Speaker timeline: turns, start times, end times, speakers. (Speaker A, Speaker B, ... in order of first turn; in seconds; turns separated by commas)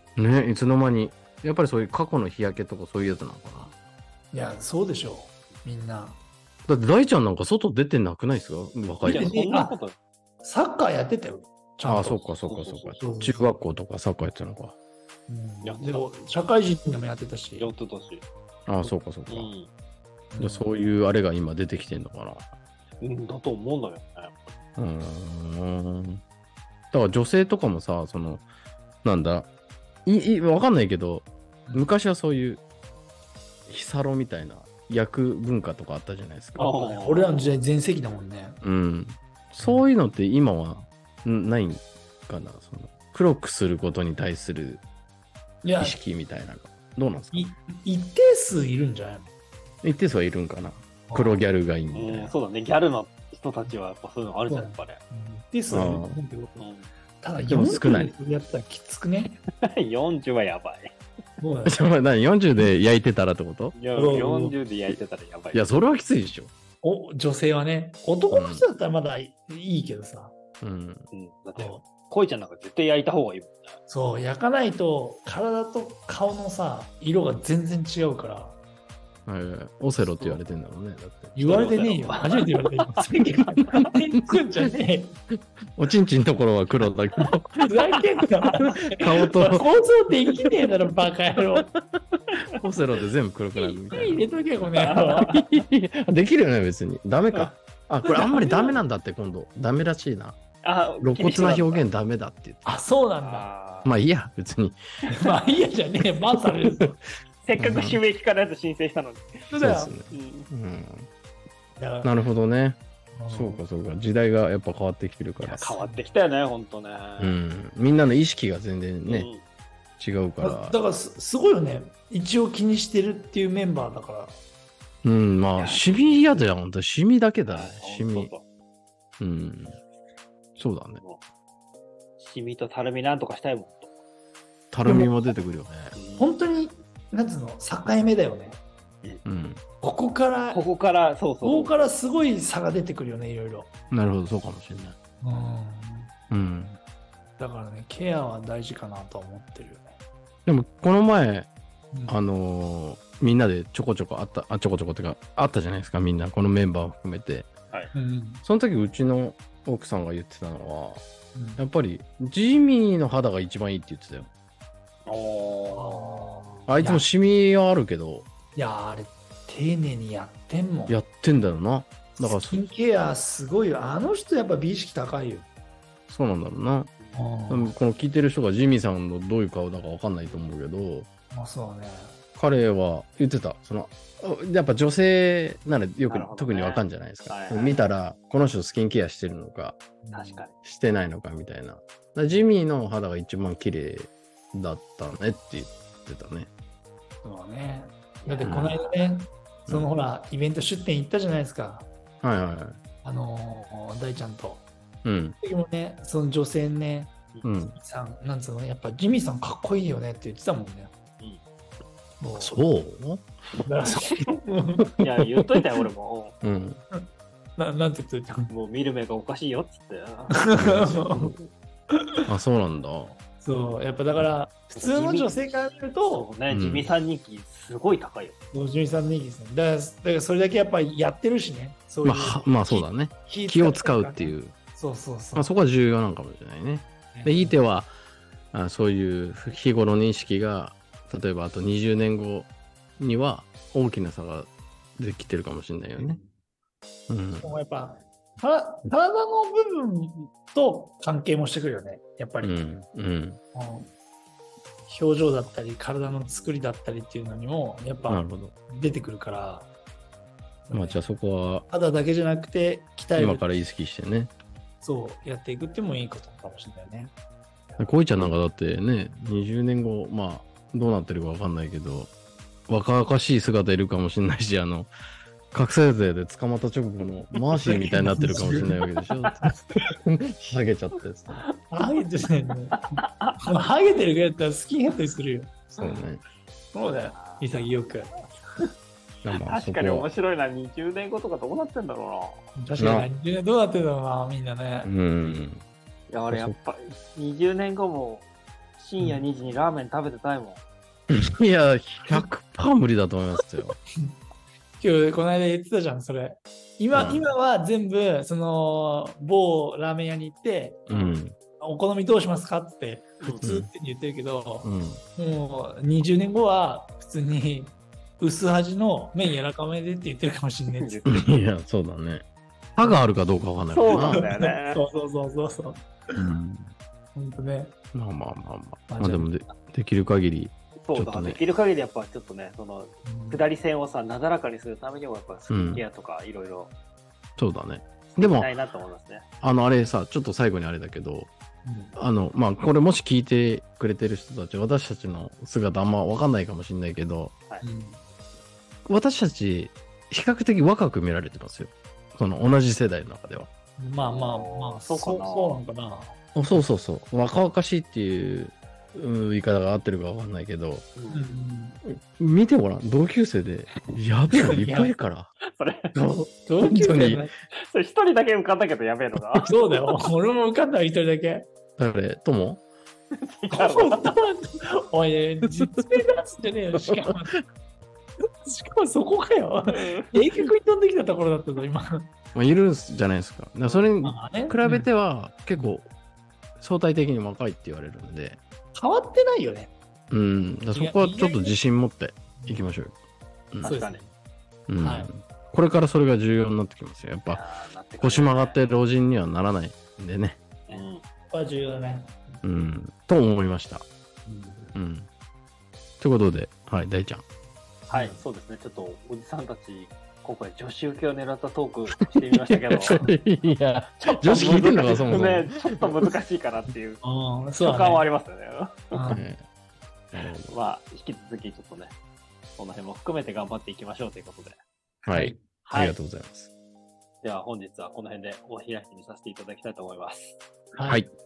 Speaker A: 0.2-3.7, Speaker B: 4.3-6.2, Speaker A: 6.7-9.3, Speaker B: 9.0-9.8, Speaker C: 9.0-9.9, Speaker B: 10.4-12.3, Speaker A: 11.8-14.8, Speaker C: 12.4-13.0, Speaker B: 13.0-13.6, Speaker B: 15.3-17.7, Speaker C: 15.6-16.1, Speaker C: 17.6-18.2, Speaker A: 18.7-19.5, Speaker C: 19.3-19.7, Speaker B: 20.3-20.7, Speaker A: 20.4-22.5, Speaker C: 23.0-24.5, Speaker A: 24.8-26.2, Speaker A: 26.9-28.5, Speaker A: 29.0-29.5, Speaker A: 30.1-32.6, Speaker A: 33.7-36.7, Speaker C: 36.6-37.6, Speaker B: 36.6-38.6, Speaker A: 38.6-44.8, Speaker B: 45.6-46.0, Speaker A: 45.8-47.5, Speaker B: 47.3-49.3, Speaker A: 49.8-52.3, Speaker B: 51.1-51.4, Speaker C: 52.0-55.0, Speaker B: 54.5-56.7, Speaker A: 55.7-56.2, Speaker C: 56.6-56.9, Speaker B: 57.2-59.4, Speaker A: 57.5-58.2, Speaker C: 59.6-61.0, Speaker B: 61.4-61.8, Speaker A: 61.7-63.8, Speaker C: 63.7-65.7, Speaker B: 63.9-64.6, Speaker A: 65.5-66.5, Speaker B: 66.8-70.3, Speaker A: 68.3-68.6, Speaker A: 70.6-71.1, Speaker C: 71.1-73.8, Speaker B: 71.6-71.8, Speaker B: 73.9-78.6, Speaker A: 79.3-81.4, Speaker C: 80.0-80.4, Speaker B: 81.3-85.2, Speaker C: 81.4-83.9, Speaker A: 85.8-88.0, Speaker B: 87.6-91.7, Speaker A: 88.9-89.7, Speaker A: 92.6-94.4, Speaker B: 93.9-95.3, Speaker C: 94.8-95.5, Speaker A: 95.3-100.4, Speaker B: 98.1-98.4, Speaker C: 98.2-98.8, Speaker C: 100.6-101.9, Speaker A: 101.0-102.8, Speaker B: 102.7-103.5, Speaker C: 103.2-103.9, Speaker A: 103.8-104.8, Speaker B: 105.1-107.0, Speaker C: 107.5-109.5, Speaker A: 107.6-108.0, Speaker B: 109.5-109.9, Speaker A: 109.5-111.1, Speaker C: 110.1-110.5, Speaker B: 111.8-112.1, Speaker A: 112.0-115.8, Speaker B: 113.1-113.6, Speaker C: 115.4-117.4, Speaker A: 117.2-119.3, Speaker C: 119.1-119.4, Speaker A: 120.0-120.8, Speaker B: 120.4-124.4, Speaker A: 125.0-128.3, Speaker C: 125.6-126.5, Speaker C: 127.5-128.4, Speaker A: 129.2-129.8, Speaker A: 130.6-131.0, Speaker C: 132.2-133.9, Speaker A: 134.7-136.0, Speaker B: 134.8-135.1, Speaker C: 136.0-136.3, Speaker B: 136.2-138.6, Speaker A: 139.2-139.6, Speaker B: 139.8-140.6, Speaker C: 140.5-141.9, Speaker B: 141.4-143.7, Speaker A: 143.9-145.0, Speaker B: 145.2-146.1, Speaker A: 146.3-146.8, Speaker B: 147.4-150.0, Speaker A: 150.5-151.5, Speaker A: 152.1-157.5, Speaker B: 157.9-158.4, Speaker A: 158.4-161.0, Speaker B: 161.3-161.6, Speaker A: 161.6-164.3, Speaker C: 165.1-166.2, Speaker B: 165.7-167.1, Speaker A: 166.7-168.3, Speaker B: 168.6-171.0, Speaker A: 170.9-172.7, Speaker B: 172.2-175.5, Speaker A: 176.1-176.9, Speaker B: 177.1-177.8, Speaker A: 177.5-181.1, Speaker B: 181.3-182.2, Speaker A: 182.3-189.8, Speaker C: 186.1-187.8, Speaker B: 190.0-190.4, Speaker C: 190.1-190.5, Speaker A: 190.6-196.5, Speaker B: 197.2-201.9, Speaker C: 198.2-198.9, Speaker A: 198.4-198.8, Speaker A: 202.2-202.8, Speaker B: 203.0-204.7, Speaker A: 205.1-205.4, Speaker B: 205.4-207.1, Speaker A: 207.4-207.8, Speaker B: 207.7-210.9, Speaker B: 212.2-212.6, Speaker A: 212.4-213.2, Speaker B: 213.7-214.9, Speaker C: 215.0-216.4, Speaker A: 216.4-216.8, Speaker B: 216.9-218.5, Speaker C: 218.5-221.3, Speaker B: 220.4-221.3, Speaker A: 220.6-221.4, Speaker A: 222.3-223.2, Speaker B: 223.4-226.3, Speaker C: 224.7-228.5, Speaker A: 226.5-226.9, Speaker B: 228.5-235.5, Speaker A: 232.0-234.6, Speaker A: 235.3-237.9, Speaker B: 237.1-237.6, Speaker A: 238.5-246.2, Speaker C: 246.0-246.2, Speaker A: 247.1-247.5, Speaker B: 247.4-252.6, Speaker A: 252.4-253.4, Speaker B: 253.5-253.9, Speaker B: 254.9-259.7, Speaker C: 256.1-256.5, Speaker A: 258.1-258.5, Speaker B: 260.7-261.0, Speaker A: 260.7-261.7, Speaker B: 261.7-263.6, Speaker A: 263.1-264.3, Speaker B: 264.8-267.1, Speaker A: 267.8-272.1, Speaker A: 272.7-274.9, Speaker A: 275.5-281.4, Speaker B: 277.6-278.8, Speaker B: 281.7-285.6, Speaker C: 282.7-283.4, Speaker A: 285.8-286.2, Speaker B: 286.7-288.1, Speaker C: 286.8-287.5, Speaker A: 289.2-290.1, Speaker C: 289.3-292.4, Speaker B: 292.6-294.9, Speaker A: 292.8-293.1, Speaker A: 294.8-295.6, Speaker C: 296.1-298.3, Speaker C: 298.8-300.6, Speaker A: 301.1-303.8, Speaker B: 304.8-310.8, Speaker A: 306.9-307.3, Speaker A: 310.9-311.4, Speaker C: 310.9-311.2, Speaker B: 311.6-321.1, Speaker A: 313.4-313.7, Speaker A: 314.6-315.0, Speaker C: 320.7-321.4, Speaker A: 321.1-322.2, Speaker A: 322.8-324.2, Speaker C: 323.7-324.9, Speaker B: 323.9-326.3, Speaker A: 326.1-326.7, Speaker B: 327.1-327.7, Speaker A: 327.9-331.4, Speaker B: 328.9-329.3, Speaker C: 330.9-336.7, Speaker B: 333.1-333.4, Speaker A: 335.5-335.8, Speaker A: 337.4-338.5, Speaker C: 338.1-339.2, Speaker A: 339.4-341.3, Speaker B: 341.6-341.9, Speaker A: 342.0-347.3, Speaker B: 347.6-348.0, Speaker A: 348.9-353.5, Speaker B: 353.8-356.2, Speaker C: 354.0-355.6, Speaker A: 356.4-360.9, Speaker C: 361.0-361.3, Speaker B: 361.1-361.8, Speaker A: 362.2-365.3, Speaker B: 364.3-364.9, Speaker C: 365.5-365.9, Speaker B: 365.9-367.3, Speaker A: 366.6-367.2, Speaker C: 367.6-369.5, Speaker B: 369.4-371.5, Speaker A: 371.8-372.6, Speaker C: 373.3-374.1, Speaker B: 373.5-377.3, Speaker A: 376.8-377.4, Speaker B: 378.4-382.1, Speaker C: 379.7-380.2, Speaker A: 382.3-385.9, Speaker B: 384.0-384.9, Speaker A: 386.6-388.4, Speaker B: 388.8-389.7, Speaker A: 390.1-392.9, Speaker B: 390.7-391.6, Speaker B: 392.4-392.7, Speaker A: 393.5-393.8, Speaker C: 393.6-394.1, Speaker B: 393.6-394.0, Speaker A: 394.7-397.4, Speaker B: 394.8-395.1, Speaker C: 397.3-398.6, Speaker A: 398.0-400.4, Speaker C: 400.7-401.0, Speaker B: 400.7-402.2, Speaker A: 402.4-403.9, Speaker B: 404.3-404.7, Speaker A: 404.8-405.1, Speaker A: 406.0-407.2, Speaker B: 407.9-408.2, Speaker C: 407.9-413.1, Speaker A: 412.1-416.1, Speaker C: 414.0-417.0, Speaker B: 414.3-415.2, Speaker B: 417.0-418.1, Speaker C: 417.6-419.2, Speaker B: 418.9-419.3, Speaker A: 419.1-419.4, Speaker A: 420.1-420.5, Speaker C: 420.5-421.9, Speaker C: 422.6-424.6, Speaker A: 425.1-426.5, Speaker B: 425.1-425.4, Speaker C: 425.6-426.0, Speaker C: 427.2-430.4, Speaker B: 430.7-431.0